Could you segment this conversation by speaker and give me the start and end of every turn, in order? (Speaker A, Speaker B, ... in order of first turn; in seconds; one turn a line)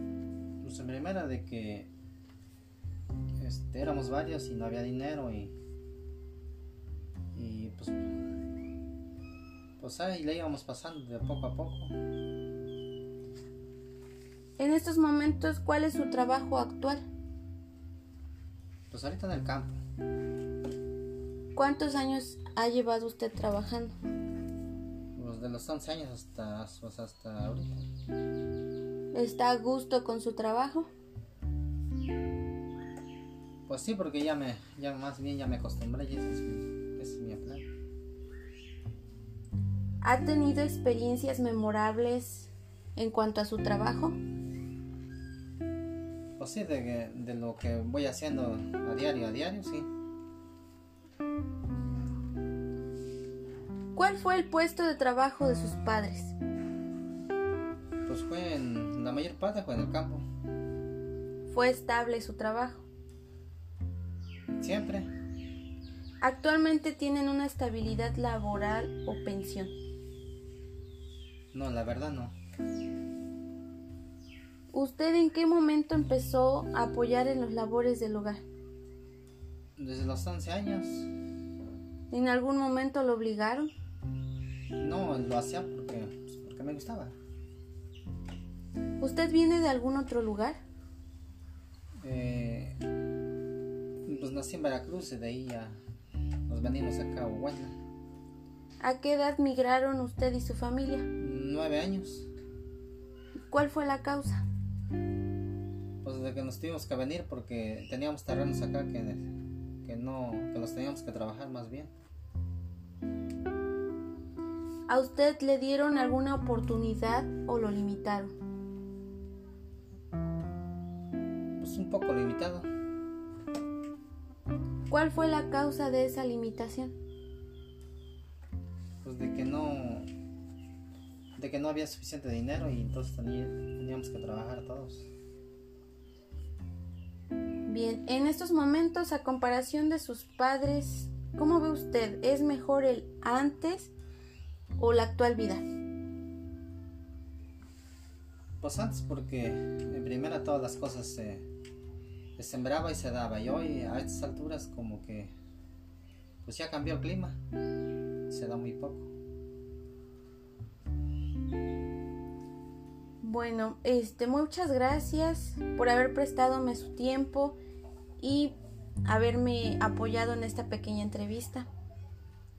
Speaker A: 0.6-1.9
Speaker A: 3.4-5.5
Speaker A: 7.3-8.0
Speaker A: 9.8-11.9
Speaker B: 14.6-17.0
Speaker A: 18.9-19.8
Speaker B: 21.6-23.9
Speaker A: 25.1-27.9
Speaker B: 29.1-30.9
Speaker A: 33.7-37.6
Speaker B: 40.0-44.2
Speaker A: 46.4-49.9
Speaker B: 54.0-56.4
Speaker A: 58.1-60.2
Speaker B: 61.5-62.9
Speaker A: 64.5-65.1
Speaker B: 66.2-69.7
Speaker A: 71.5-72.3
Speaker B: 74.7-78.4
Speaker A: 79.8-81.1
Speaker B: 82.1-83.7
Speaker A: 84.8-87.2
Speaker B: 89.0-90.6
Speaker A: 92.0-92.8
Speaker A: 94.0-95.8
Speaker A: 96.5-97.8
Speaker B: 98.8-101.1
Speaker A: 101.2-102.3
Speaker B: 103.5-104.4
Speaker A: 106.0-109.2
Speaker A: 109.8-111.9
Speaker B: 114.9-118.3
Speaker A: 121.6-122.7
Speaker B: 124.9-127.0
Speaker A: 129.0-130.1
Speaker A: 131.4-135.1
Speaker B: 137.7-143.9
Speaker B: 144.8-145.6
Speaker A: 148.6-151.5
Speaker A: 152.4-155.3
Speaker A: 156.4-157.4
Speaker A: 158.3-159.1
Speaker B: 163.2-167.6
Speaker B: 168.2-171.7